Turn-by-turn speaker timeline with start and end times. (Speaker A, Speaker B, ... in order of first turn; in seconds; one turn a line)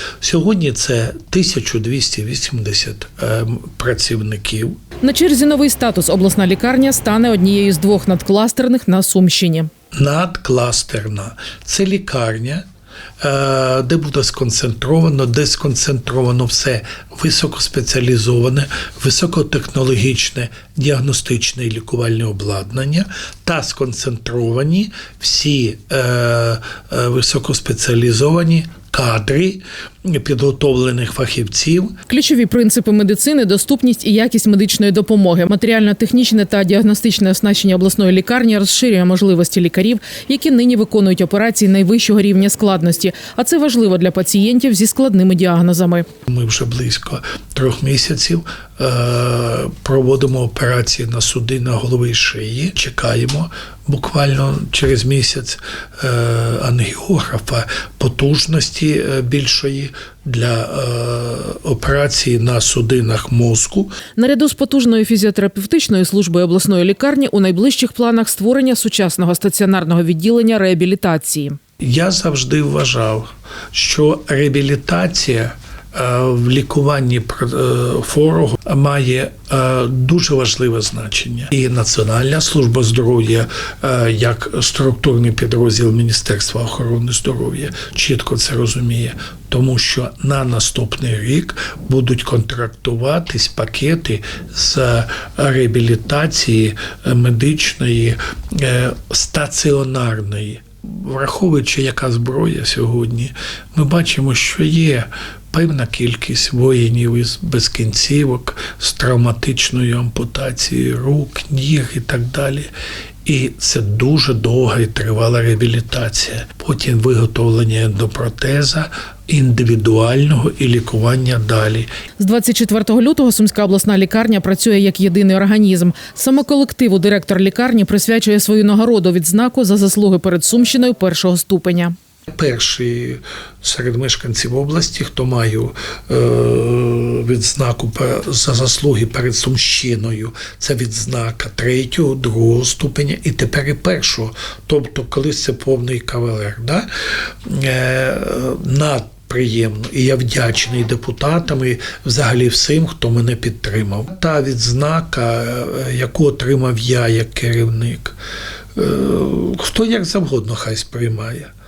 Speaker A: 0.2-4.8
Speaker B: 5.0-9.7
Speaker A: 9.9-12.6
Speaker A: 13.2-31.9
Speaker B: 32.1-46.1
Speaker A: 46.3-64.0
Speaker B: 64.1-71.6
Speaker A: 71.8-112.7
Speaker A: 113.2-121.9
Speaker B: 122.2-131.9
Speaker A: 132.3-146.9
Speaker A: 147.4-158.2
Speaker A: 158.8-161.5